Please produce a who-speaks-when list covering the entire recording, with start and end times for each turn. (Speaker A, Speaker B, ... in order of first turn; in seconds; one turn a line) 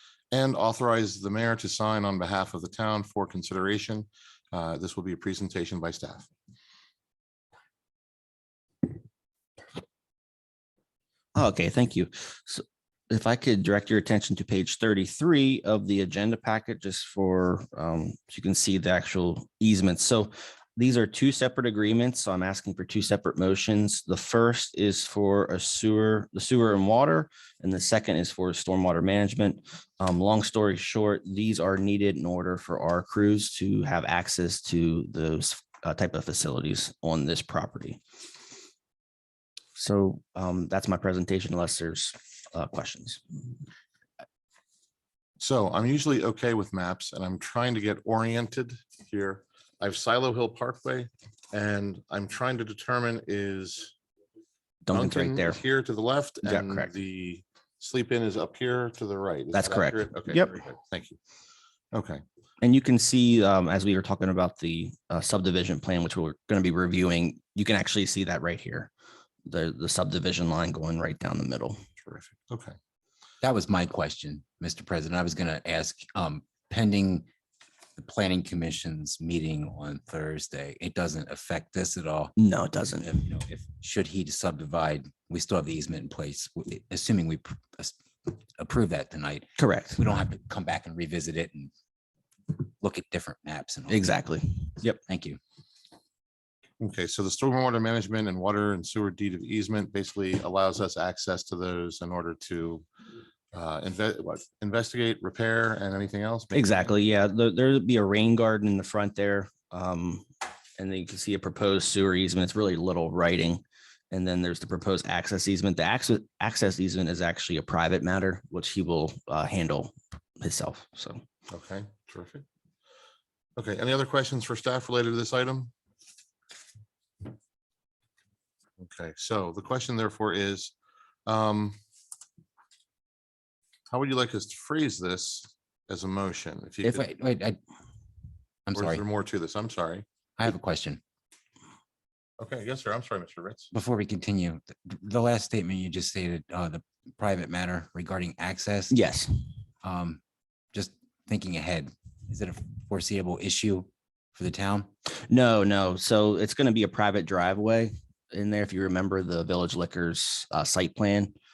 Speaker A: 0.3-6.3
Speaker B: 11.3-38.0
Speaker B: 39.8-43.2
Speaker A: 45.4-53.9
Speaker B: 54.9-55.6
Speaker A: 54.9-61.2
Speaker B: 56.4-56.9
Speaker B: 59.5-60.5
Speaker A: 61.9-62.2
Speaker B: 62.6-68.9
Speaker B: 69.5-71.8
Speaker A: 72.0-72.7
Speaker C: 73.4-77.3
Speaker C: 78.0-82.3
Speaker B: 82.4-83.2
Speaker C: 83.0-91.7
Speaker B: 89.6-90.0
Speaker C: 92.8-94.0
Speaker B: 93.9-95.0
Speaker C: 95.0-95.4
Speaker A: 96.8-102.8
Speaker A: 103.5-106.9
Speaker B: 106.5-110.2
Speaker B: 110.8-121.2
Speaker A: 121.5-122.4
Speaker A: 123.6-125.7
Speaker A: 128.8-130.7
Speaker A: 131.2-131.8
Speaker A: 133.9-137.1
Speaker C: 136.8-137.6
Speaker C: 138.7-139.0
Speaker A: 138.7-140.0
Speaker C: 140.4-141.0
Speaker A: 142.4-143.7
Speaker C: 143.7-148.9
Speaker B: 148.9-149.3
Speaker C: 149.8-150.2
Speaker C: 150.7-154.9
Speaker B: 155.2-161.3